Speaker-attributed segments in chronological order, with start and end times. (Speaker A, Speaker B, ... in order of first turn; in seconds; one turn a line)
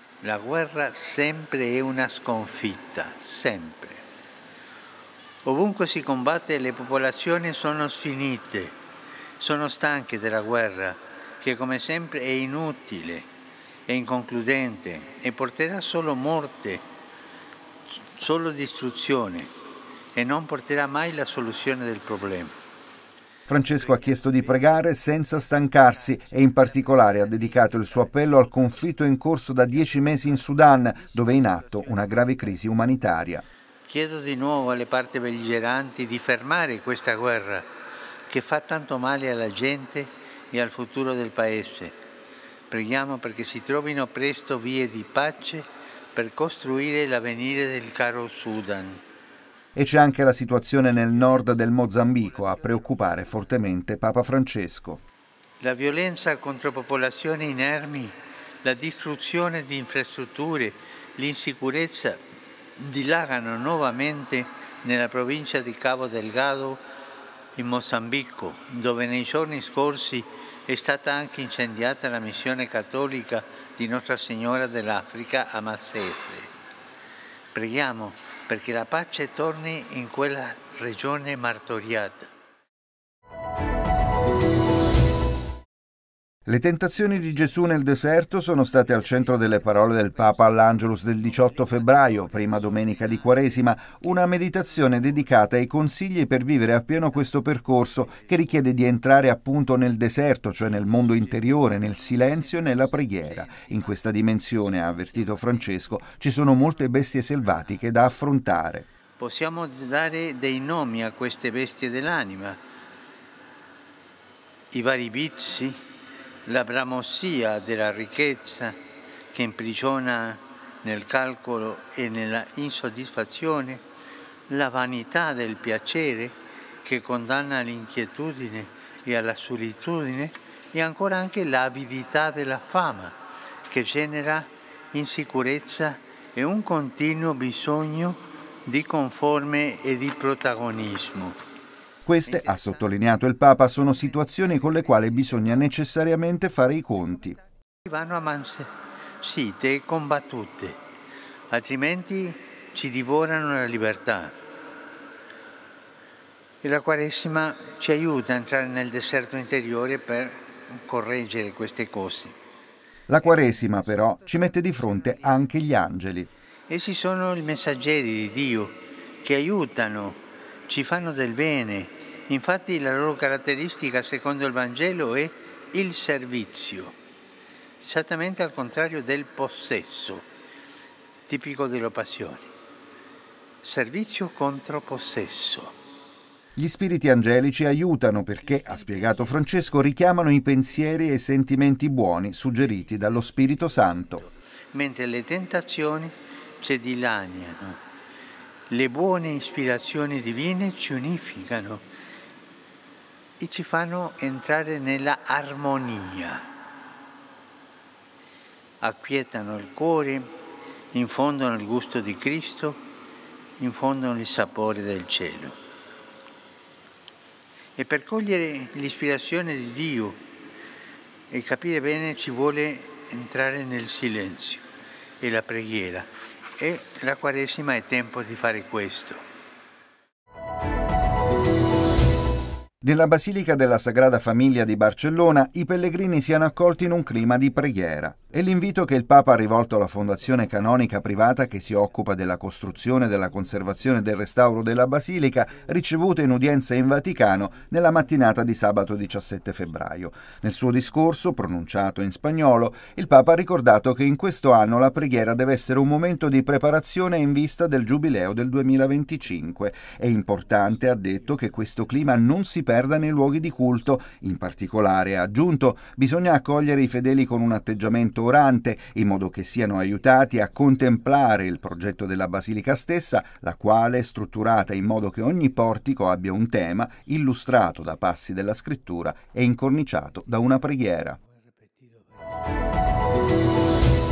Speaker A: 0.2-4.0
Speaker A: 5.4-8.8
Speaker A: 9.4-13.3
Speaker A: 13.9-16.8
Speaker A: 18.1-19.5
Speaker A: 20.1-22.5
Speaker B: 23.5-33.4
Speaker A: 33.9-37.7
Speaker A: 38.3-42.0
Speaker A: 42.7-49.0
Speaker B: 49.8-55.0
Speaker A: 55.6-62.2
Speaker A: 62.8-66.8
Speaker A: 67.5-76.5
Speaker A: 77.5-82.3
Speaker B: 86.5-108.8
Speaker A: 91.4-93.5
Speaker A: 101.0-104.0
Speaker A: 105.0-105.7
Speaker A: 109.2-112.6
Speaker A: 114.7-115.8
Speaker A: 116.4-118.8
Speaker A: 119.3-123.8
Speaker A: 124.5-141.4
Speaker B: 142.1-147.4
Speaker A: 142.2-142.8
Speaker A: 144.5-145.4
Speaker A: 147.8-150.8
Speaker A: 151.5-154.4
Speaker A: 156.6-162.4
Speaker B: 163.1-166.3
Speaker A: 166.7-176.9
Speaker A: 177.8-180.2
Speaker A: 181.3-182.5
Speaker A: 183.6-185.7
Speaker B: 186.6-194.2
Speaker A: 194.7-197.8
Speaker A: 198.7-201.8
Speaker A: 203.4-206.5
Speaker A: 208.8-210.3
Speaker A: 210.9-212.8
Speaker A: 213.6-215.6
Speaker A: 217.8-220.2
Speaker A: 221.3-224.6
Speaker A: 225.2-229.2
Speaker B: 232.8-281.2
Speaker A: 281.2-282.3